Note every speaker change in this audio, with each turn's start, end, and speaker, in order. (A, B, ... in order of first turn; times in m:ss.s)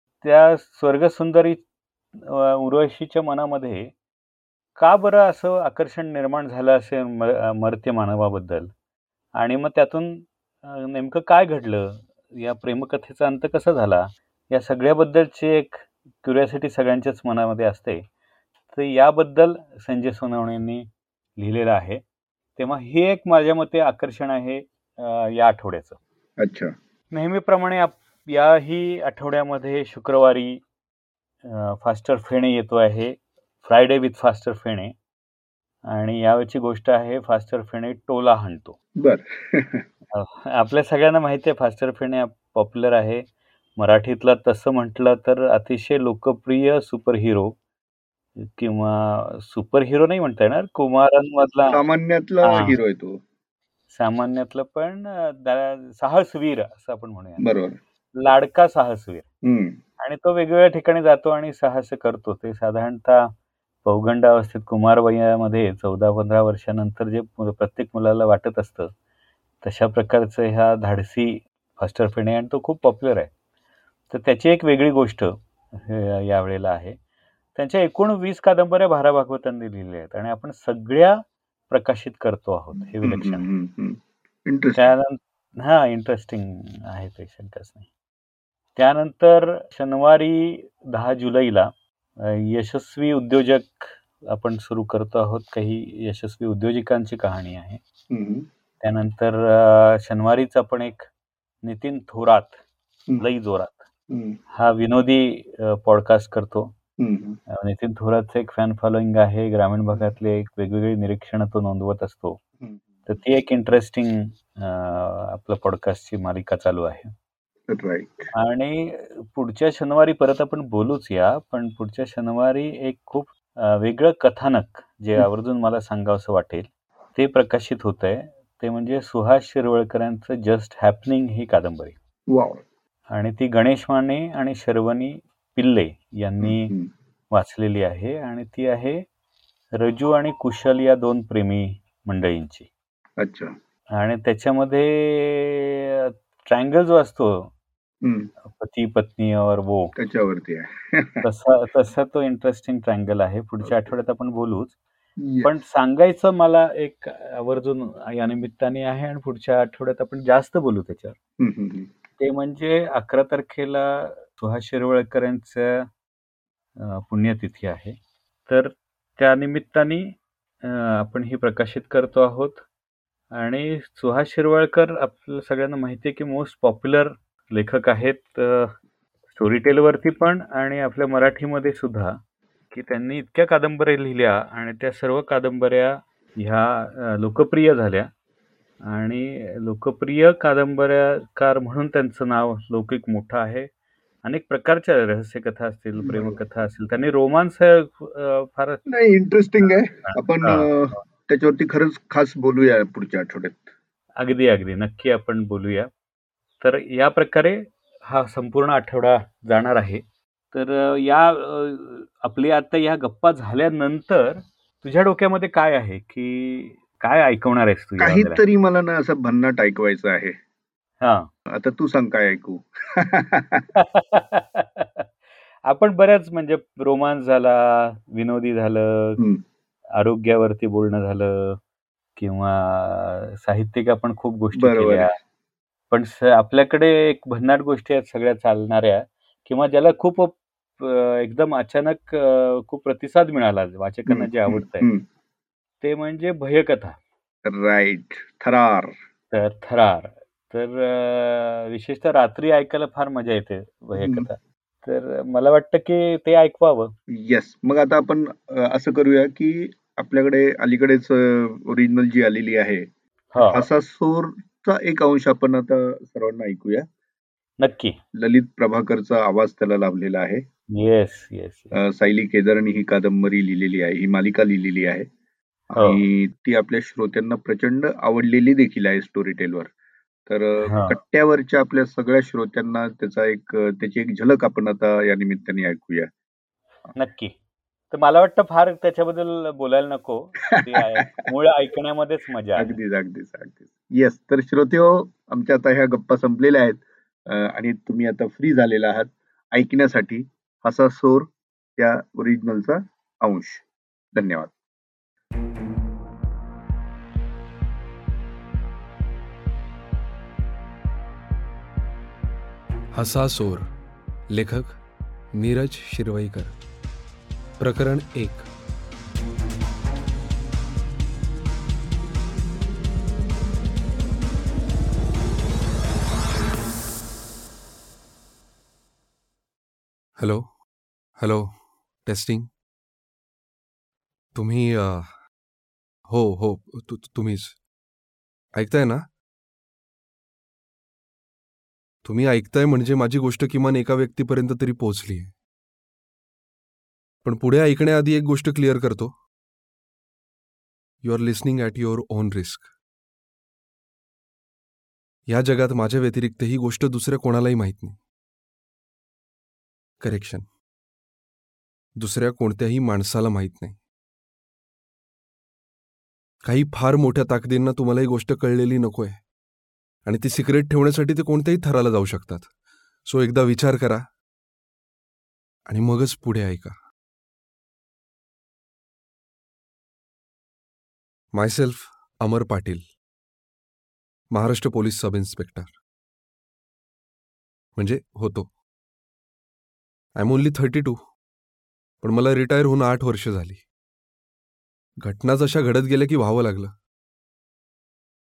0:00.2-0:01.6 A
0:02.2-0:03.9 A
0:04.8-0:08.7 A
0:09.4-0:18.0 A
0:18.7-0:22.0 A
0:22.6-0:26.0 A
0:26.4-0:26.7 B
0:27.1-0:30.6 A
0:31.4-0:34.9 A
0:35.9-0:38.8 A
0:39.0-0:39.8 B
0:40.1-0:43.2 A
0:43.8-0:47.6 A
0:48.4-0:51.8 A
0:51.7-0:53.2 B
0:52.4-0:52.8 A
0:53.9-0:57.4 A
0:57.4-0:57.8 B
0:58.2-0:59.3 A
0:59.4-0:59.8 B
1:00.0-1:03.3 A
1:03.8-1:08.9 A
1:09.6-1:13.3 A
1:14.1-1:17.0 A
1:17.6-1:23.4 A
1:23.0-1:24.9 B
1:24.8-1:27.9 A
1:28.8-1:37.8 A
1:38.1-1:38.5 B
1:38.8-1:41.1 A
1:41.6-1:42.6 A
1:43.2-1:43.9 A
1:44.1-1:44.4 B
1:44.5-1:46.7 A
1:47.0-1:47.4 B
1:47.5-1:52.4 A
1:53.1-1:57.1 A
1:57.7-1:58.3 B
1:58.4-2:12.0 A
2:12.3-2:12.6 B
2:13.1-2:16.7 A
2:16.4-2:16.9 B
2:17.3-2:19.0 A
2:19.8-2:22.7 A
2:23.2-2:23.5 B
2:24.0-2:27.5 A
2:28.0-2:28.3 B
2:28.4-2:29.9 A
2:30.0-2:31.2 B
2:31.2-2:34.8 A
2:33.6-2:33.9 B
2:35.2-2:35.5 B
2:35.4-2:41.2 A
2:41.4-2:41.9 B
2:42.2-2:45.9 A
2:46.8-2:48.0 A
2:48.5-2:52.6 A
2:53.3-2:58.7 A
2:59.3-3:02.2 A
3:02.7-3:08.1 A
3:08.9-3:13.7 A
3:14.2-3:18.8 A
3:16.0-3:16.4 B
3:18.9-3:23.6 B
3:20.1-3:20.7 A
3:24.2-3:25.9 A
3:26.6-3:38.4 A
3:38.0-3:40.4 B
3:41.0-3:41.3 A
3:41.5-3:43.7 B
3:43.8-3:45.1 A
3:45.7-3:49.2 A
3:50.0-3:51.6 A
3:52.2-3:55.1 A
3:54.6-3:55.1 B
3:55.9-4:04.9 A
4:04.1-4:05.0 B
4:05.8-4:07.0 A
4:07.5-4:09.0 B
4:09.3-4:16.9 A
4:14.0-4:14.3 B
4:17.1-4:22.9 B
4:23.3-4:23.7 A
4:23.4-4:26.9 B
4:27.6-4:28.0 A
4:28.2-4:30.4 B
4:30.7-4:31.8 A
4:31.7-4:35.1 B
4:35.7-4:39.7 B
4:35.8-4:36.0 A
4:40.3-4:46.1 B
4:40.6-4:41.0 A
4:47.0-4:47.3 A
4:47.9-4:52.8 A
4:50.5-4:51.3 B
4:52.6-5:03.6 B
5:04.2-5:04.5 B
5:12.9-5:13.7 C
5:14.3-5:14.8 C
5:15.3-5:16.5 C
5:17.6-5:18.5 C
5:30.2-5:30.5 C
5:31.2-5:31.5 C
5:32.1-5:32.5 C
5:34.4-5:35.1 C
5:36.1-5:37.6 C
5:38.6-5:39.0 C
5:42.0-5:45.3 C
5:47.2-5:49.2 C
5:51.0-5:52.7 C
5:55.3-5:58.0 C
6:00.0-6:00.5 C
6:02.0-6:03.8 C
6:06.4-6:09.2 C
6:10.0-6:12.5 C
6:13.0-6:14.1 C
6:15.7-6:16.8 C
6:21.3-6:22.8 C
6:24.3-6:25.7 C
6:27.8-6:28.5 C
6:30.2-6:31.0 C
6:32.0-6:33.6 C
6:35.0-6:36.7 C